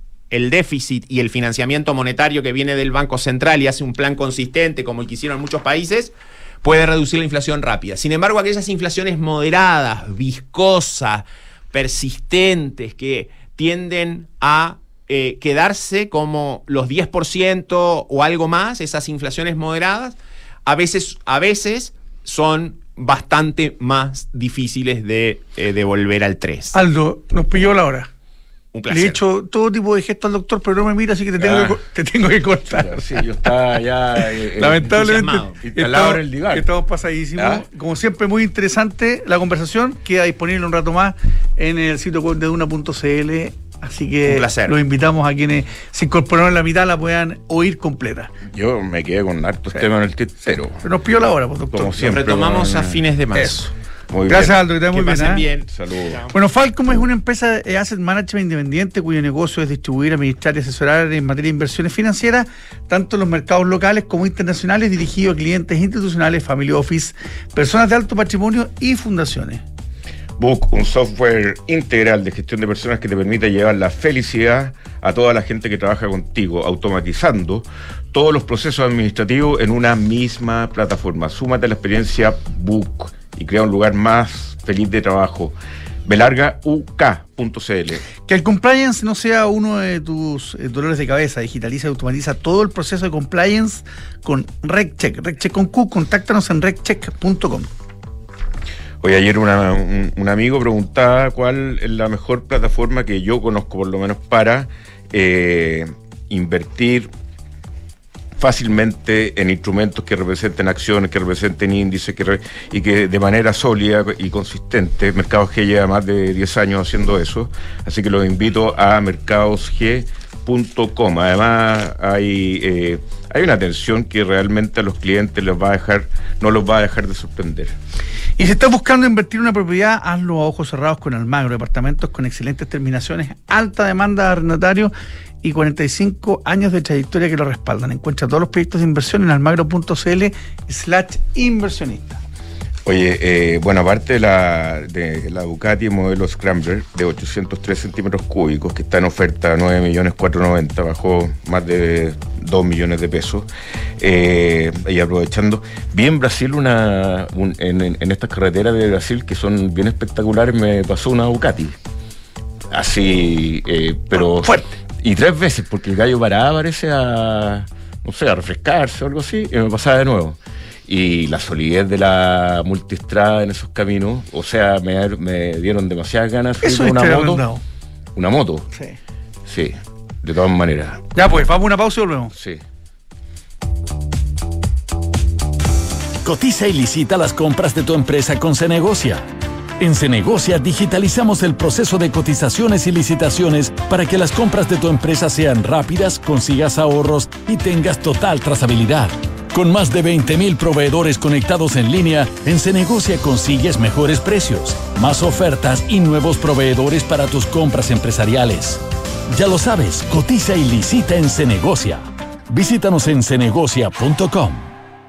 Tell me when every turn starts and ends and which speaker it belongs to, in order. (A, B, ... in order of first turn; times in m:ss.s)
0:00.3-0:26.7 A
0:26.7-0:28.1 B
0:28.7-0:29.2 A
0:28.9-0:33.2 B
0:31.4-0:31.8 C
0:32.7-0:36.7 C
0:34.6-0:48.3 B
0:35.0-0:35.5 A
0:37.4-0:37.6 C
0:44.2-0:44.8 A
0:48.5-0:50.8 C
0:50.8-0:52.2 B
0:51.7-0:53.0 C
0:52.0-0:53.6 A
0:53.3-0:53.7 B
0:54.1-0:54.6 C
0:54.3-0:55.4 B
0:54.9-0:56.3 A
0:55.7-0:56.2 C
0:56.3-1:09.6 B
1:10.4-1:28.0 C
1:28.2-1:37.7 B
1:39.0-1:47.1 C
1:48.4-2:07.7 C
2:08.4-2:14.9 B
2:15.4-2:22.2 B
2:22.8-2:33.5 C
2:34.0-2:41.8 C
2:42.7-2:57.4 C
2:44.2-2:44.7 B
2:56.6-2:57.6 B
2:58.1-2:58.7 C
2:59.4-3:01.0 C
3:01.1-3:02.3 B
3:02.3-3:02.6 C
3:06.2-3:09.2 D
3:09.8-3:34.7 D